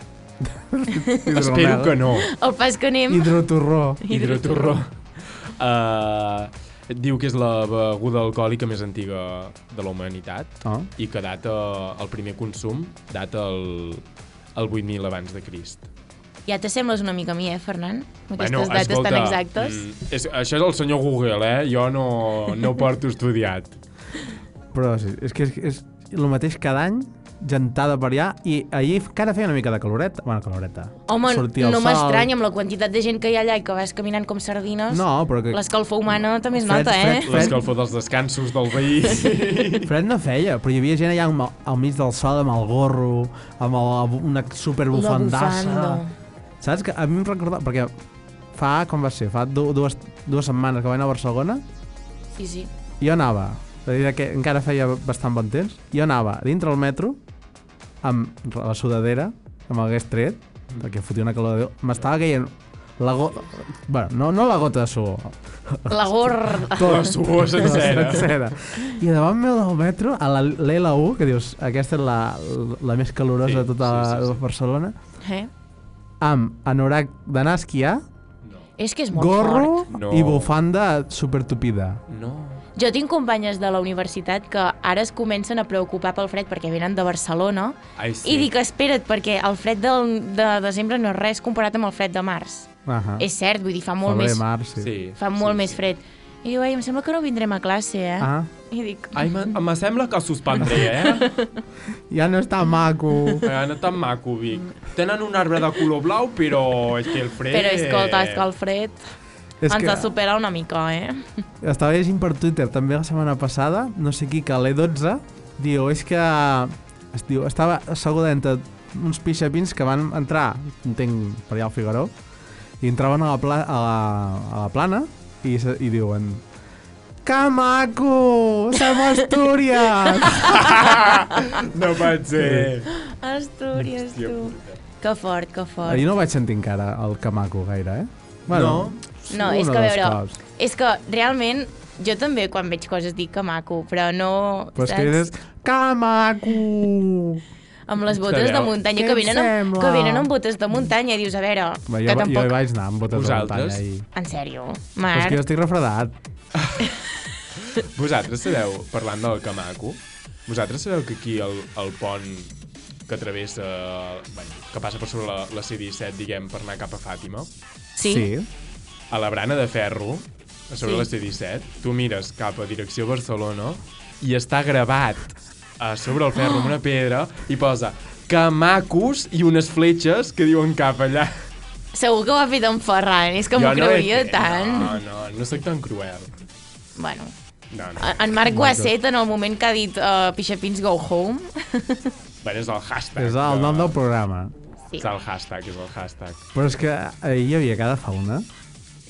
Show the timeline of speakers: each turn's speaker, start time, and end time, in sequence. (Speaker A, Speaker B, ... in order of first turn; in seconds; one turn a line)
Speaker A: 0.4-2.0
Speaker B: 0.9-1.3
Speaker C: 1.3-2.3
Speaker B: 2.1-3.4
Speaker A: 3.1-4.0
Speaker B: 4.0-4.8
Speaker C: 4.1-14.0
Speaker A: 10.6-10.9
Speaker C: 14.5-15.9
Speaker B: 16.5-19.8
Speaker C: 18.4-23.8
Speaker A: 24.7-32.3
Speaker B: 31.1-37.6
Speaker A: 34.9-35.6
Speaker A: 36.5-37.6
Speaker C: 37.2-39.9
Speaker A: 39.8-46.0
Speaker B: 44.9-46.1
Speaker A: 46.6-47.9
Speaker A: 48.5-51.6
Speaker B: 52.3-52.7
Speaker A: 53.0-57.2
Speaker A: 58.0-74.9
Speaker B: 65.9-67.1
Speaker C: 66.7-68.4
Speaker C: 73.4-74.4
Speaker B: 75.2-75.5
Speaker A: 76.2-78.0
Speaker B: 78.8-79.9
Speaker A: 79.1-82.0
Speaker C: 79.9-80.5
Speaker C: 82.1-82.6
Speaker B: 82.7-94.4
Speaker C: 88.0-88.5
Speaker A: 92.8-93.3
Speaker A: 94.0-94.9
Speaker C: 94.8-95.8
Speaker B: 95.2-99.5
Speaker A: 98.2-98.5
Speaker C: 99.1-101.3
Speaker B: 100.7-101.5
Speaker A: 102.1-103.5
Speaker C: 103.4-108.5
Speaker B: 107.5-109.0
Speaker A: 109.6-110.1
Speaker B: 109.7-111.3
Speaker A: 111.6-122.1
Speaker A: 122.8-126.4
Speaker A: 127.2-130.7
Speaker B: 129.8-131.6
Speaker C: 130.3-132.9
Speaker A: 132.3-132.7
Speaker B: 132.9-136.0
Speaker C: 134.0-134.8
Speaker A: 135.8-140.4
Speaker C: 138.5-139.0
Speaker B: 139.3-145.3
Speaker A: 144.8-147.4
Speaker B: 147.9-152.6
Speaker C: 148.1-148.8
Speaker A: 148.9-150.3
Speaker A: 151.9-154.1
Speaker C: 153.1-153.8
Speaker B: 154.1-155.4
Speaker A: 155.1-156.1
Speaker C: 156.5-156.9
Speaker C: 157.6-162.5
Speaker C: 163.1-167.5
Speaker B: 167.9-168.3
Speaker A: 168.0-168.5
Speaker C: 169.1-181.4
Speaker B: 170.8-171.1
Speaker B: 181.9-185.0
Speaker C: 183.5-186.3
Speaker B: 186.9-187.3
Speaker C: 187.7-188.2
Speaker B: 188.0-192.1
Speaker A: 188.5-188.9
Speaker C: 192.4-193.9
Speaker A: 193.2-194.5
Speaker C: 195.0-196.4
Speaker A: 196.5-198.5